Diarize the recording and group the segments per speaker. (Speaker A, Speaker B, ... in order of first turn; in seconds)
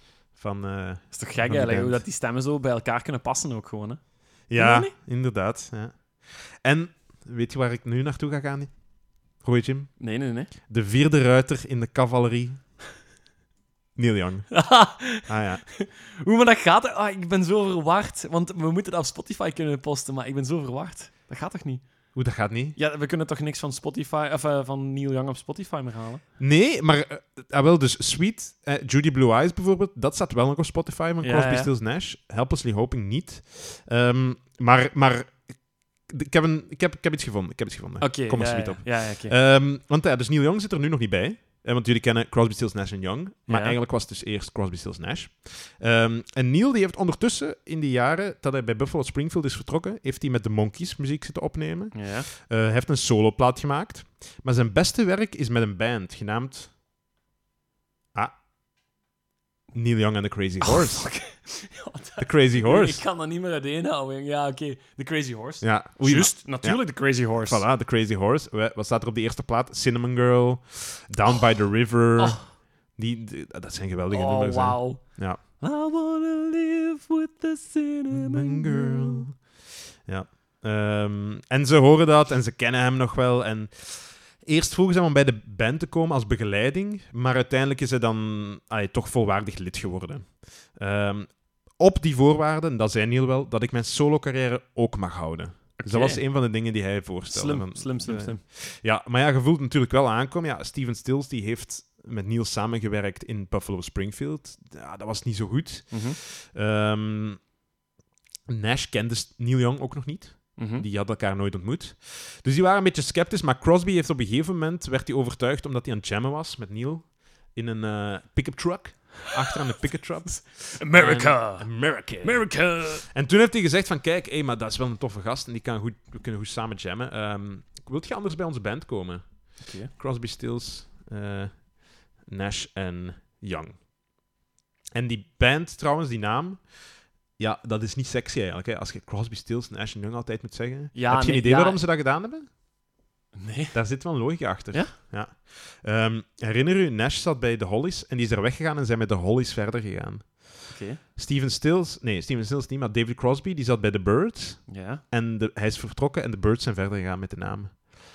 Speaker A: 0.3-2.0, 4.5-8.7, 9.4-9.9, 10.7-12.6, 13.9-14.5, 15.3-15.6, 22.1-22.8, 26.4-35.5, 36.1-56.7, 59.7-61.1, 62.2-63.0, 65.6-66.8, 67.4-72.4, 73.0-75.4, 78.1-79.4, 80.1-107.4, 108.5-122.5, 123.0-133.8, 134.9-136.6, 137.4-142.5, 143.7-150.5, 151.2-157.8
Speaker B: 1.1-4.0, 4.5-4.9, 10.0-10.5, 14.5-21.8, 22.8-26.2, 31.2-31.7, 38.0-39.3, 43.5-43.8, 51.9-52.3, 60.6-67.6, 72.2-72.4, 74.1-79.3, 95.8-96.2, 97.3-98.4, 105.9-106.2, 110.6-110.8, 120.8-121.7, 122.2-123.1, 129.6-129.9, 140.9-141.8, 143.4-143.8, 150.7-151.0, 154.7-155.0